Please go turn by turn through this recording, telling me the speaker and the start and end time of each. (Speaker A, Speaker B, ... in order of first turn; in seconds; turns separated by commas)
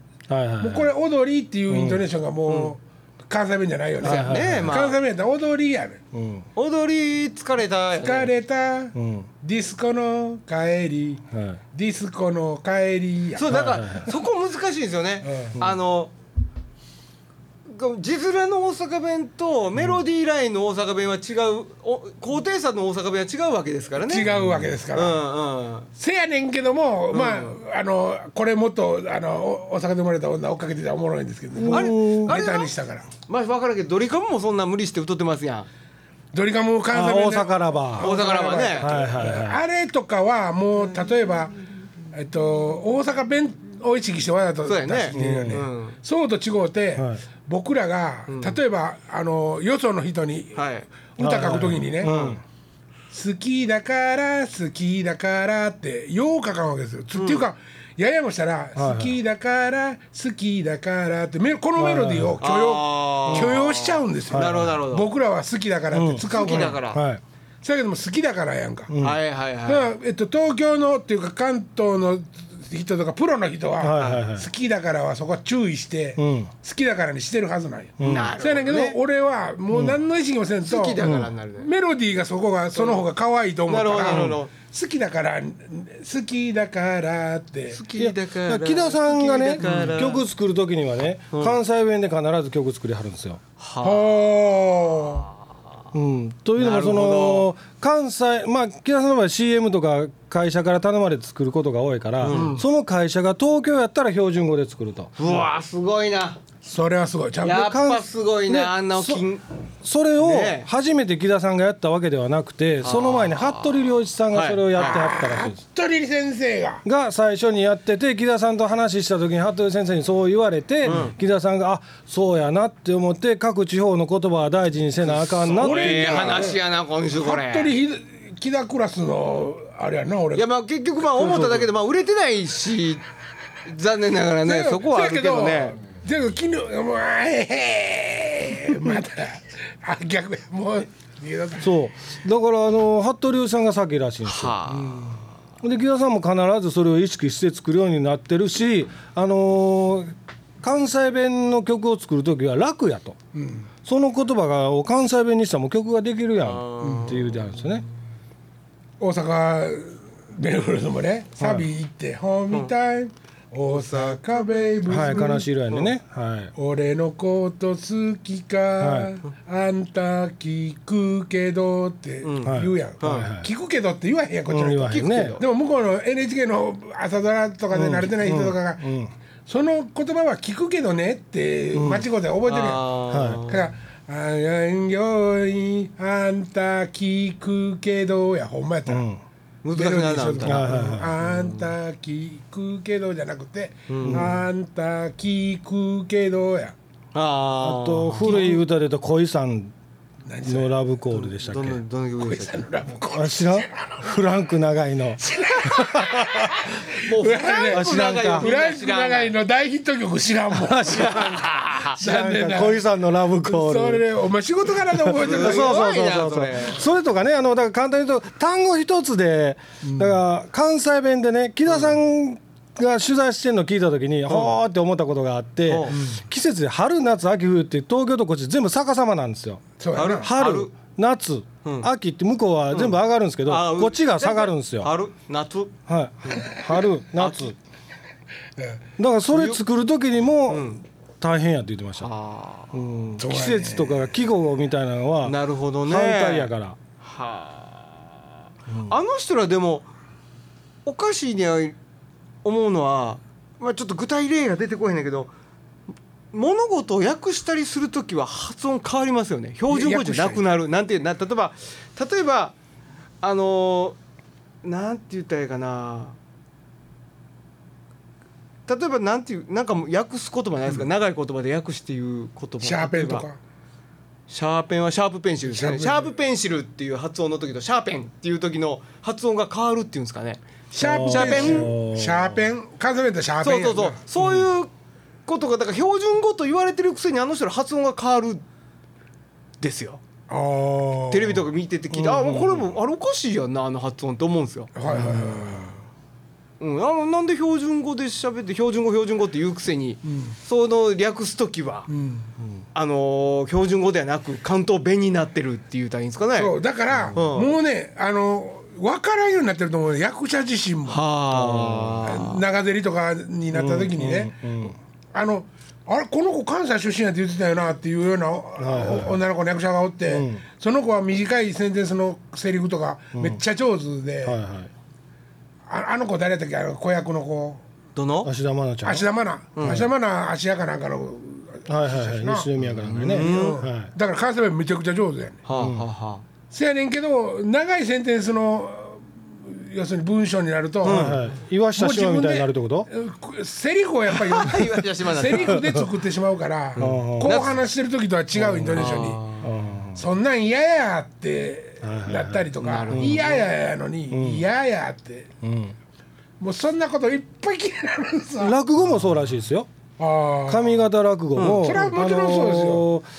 Speaker A: 0.3-0.9, Speaker B: 0.6-6.0, Speaker A: 1.7-2.0, Speaker C: 2.5-2.7, Speaker A: 4.0-4.8, Speaker C: 4.0-5.0, Speaker A: 6.1-6.4, Speaker C: 6.5-8.3, Speaker B: 8.0-13.5, Speaker A: 8.9-9.3, Speaker A: 11.3-11.6, Speaker C: 13.3-16.1, Speaker A: 13.4-14.1, Speaker B: 15.2-15.6, Speaker C: 17.7-24.3, Speaker B: 24.0-25.2, Speaker C: 24.9-25.9, Speaker B: 25.9-33.1, Speaker C: 27.1-27.6, Speaker A: 31.6-32.3, Speaker C: 31.7-32.7, Speaker C: 33.3-35.7, Speaker B: 36.3-41.5, Speaker A: 36.9-39.6, Speaker C: 38.0-38.9, Speaker B: 42.1-52.2, Speaker C: 44.6-46.0, Speaker A: 45.1-45.6, Speaker A: 46.9-47.2, Speaker C: 48.3-48.6, Speaker C: 50.5-50.9, Speaker A: 51.2-52.4, Speaker C: 52.0-52.4, Speaker B: 53.1-66.8, Speaker C: 57.1-57.5, Speaker A: 58.8-59.1, Speaker A: 61.8-62.4, Speaker C: 62.4-65.1, Speaker A: 63.3-63.5, Speaker A: 64.3-64.8, Speaker A: 65.9-67.2, Speaker C: 66.2-67.0, Speaker B: 67.6-69.0, Speaker A: 68.9-69.2, Speaker C: 69.0-69.9, Speaker B: 69.6-87.8, Speaker A: 73.8-74.5, Speaker C: 73.9-74.2, Speaker A: 76.2-76.5, Speaker A: 78.0-78.3, Speaker C: 78.0-79.0, Speaker A: 79.7-80.0, Speaker C: 80.7-81.7, Speaker A: 81.0-81.3, Speaker C: 82.7-83.0, Speaker C: 83.7-84.5, Speaker A: 84.1-84.4, Speaker C: 87.7-90.2, Speaker A: 88.0-93.4, Speaker C: 91.3-91.6, Speaker C: 93.6-94.1, Speaker B: 93.8-95.3, Speaker A: 95.9-105.5, Speaker C: 96.6-97.5, Speaker C: 102.2-102.6, Speaker B: 102.2-102.5, Speaker C: 105.2-106.4, Speaker B: 106.6-107.7, Speaker C: 107.4-109.4, Speaker A: 107.5-109.2, Speaker A: 109.8-115.6, Speaker C: 110.2-110.7, Speaker C: 112.8-115.1, Speaker B: 114.8-116.8, Speaker A: 116.8-126.5, Speaker C: 120.8-121.1, Speaker B: 125.1-130.4, Speaker C: 125.5-127.7, Speaker C: 130.3-133.0, Speaker A: 131.1-131.7, Speaker C: 133.7-135.8, Speaker B: 134.4-141.8, Speaker A: 141.6-144.5, Speaker C: 144.2-145.2, Speaker B: 144.7-145.2, Speaker A: 145.6-153.2, Speaker B: 153.3-153.7, Speaker A: 153.8-157.8, Speaker C: 156.4-157.4, Speaker B: 156.8-157.2, Speaker B: 159.0-165.5, Speaker A: 161.4-161.7, Speaker C: 163.7-164.2, Speaker A: 164.9-166.5, Speaker C: 165.0-165.9, Speaker B: 166.6-178.9, Speaker A: 168.8-169.2, Speaker C: 172.2-173.3, Speaker A: 172.4-173.5, Speaker A: 174.5-175.4, Speaker C: 174.9-175.4, Speaker A: 177.7-179.1, Speaker B: 179.4-182.9, Speaker A: 181.7-182.1, Speaker C: 182.4-183.7, Speaker A: 183.1-183.4, Speaker B: 183.5-189.0, Speaker A: 188.9-189.2, Speaker C: 189.6-191.7, Speaker B: 189.7-196.7, Speaker A: 190.4-191.2, Speaker C: 193.9-194.3, Speaker A: 194.0-194.4, Speaker C: 197.1-198.6, Speaker A: 197.6-199.7, Speaker B: 198.2-198.6, Speaker B: 200.2-200.8, Speaker A: 200.4-201.8, Speaker C: 201.1-202.7, Speaker B: 202.2-204.1, Speaker A: 203.1-206.7, Speaker B: 205.2-211.4, Speaker C: 206.8-209.3, Speaker A: 207.6-208.5, Speaker A: 210.5-214.0, Speaker C: 210.8-212.0, Speaker B: 211.9-215.8, Speaker A: 214.9-234.9, Speaker C: 215.2-216.8, Speaker B: 219.8-220.2, Speaker C: 221.7-221.9, Speaker C: 224.3-224.5, Speaker C: 225.7-226.0, Speaker B: 225.9-226.2, Speaker B: 229.8-230.3, Speaker C: 229.9-230.7, Speaker C: 231.6-231.9, Speaker C: 232.7-237.5, Speaker A: 235.9-237.6, Speaker A: 239.0-242.1, Speaker C: 239.3-239.6, Speaker C: 240.5-240.8, Speaker C: 242.0-242.7, Speaker A: 242.7-246.8, Speaker B: 243.2-244.1, Speaker C: 245.2-248.0, Speaker A: 248.7-248.9, Speaker C: 248.9-249.9, Speaker C: 250.8-251.8, Speaker C: 252.4-255.3, Speaker C: 256.3-262.6, Speaker B: 259.7-260.4, Speaker C: 263.2-264.0, Speaker C: 264.6-266.2, Speaker C: 268.7-273.2, Speaker B: 272.6-273.4, Speaker C: 274.3-280.4, Speaker B: 275.5-276.1, Speaker B: 280.7-284.0, Speaker A: 280.8-282.4, Speaker C: 281.1-281.7, Speaker C: 283.4-284.7, Speaker C: 285.3-288.4, Speaker C: 289.6-290.0, Speaker B: 290.3-291.5, Speaker C: 291.1-294.7, Speaker A: 291.9-292.7, Speaker B: 294.7-295.8, Speaker A: 294.9-295.5, Speaker C: 296.6-301.9, Speaker B: 300.0-300.4, Speaker B: 301.9-302.3, Speaker C: 302.7-306.5, Speaker B: 306.4-311.0, Speaker A: 306.9-307.2, Speaker C: 307.1-307.5, Speaker C: 310.9-312.4, Speaker A: 311.3-312.0, Speaker B: 312.0-314.3, Speaker A: 313.5-314.8, Speaker B: 315.1-324.4, Speaker A: 318.6-319.2, Speaker A: 320.1-320.4, Speaker A: 324.2-324.7, Speaker B: 325.7-327.6, Speaker C: 327.9-328.3, Speaker A: 328.2-329.1, Speaker B: 328.8-332.5, Speaker C: 329.6-329.8, Speaker A: 329.6-329.9, Speaker A: 331.7-333.9, Speaker C: 332.6-333.6, Speaker B: 333.1-335.4, Speaker C: 335.4-336.2, Speaker A: 335.5-335.8, Speaker B: 336.5-341.2, Speaker C: 340.8-341.2, Speaker A: 340.9-342.9, Speaker B: 341.8-349.2, Speaker C: 344.1-345.6, Speaker A: 345.3-345.9, Speaker C: 346.8-347.6, Speaker A: 346.8-347.5, Speaker A: 348.3-350.0, Speaker C: 348.7-349.5, Speaker B: 349.9-355.3, Speaker A: 351.8-353.3, Speaker C: 352.6-353.4, Speaker A: 354.1-354.4, Speaker A: 355.4-355.7, Speaker B: 356.4-358.6, Speaker A: 358.4-359.7, Speaker B: 360.0-360.9, Speaker A: 360.5-363.1, Speaker C: 361.3-361.7, Speaker B: 361.4-362.9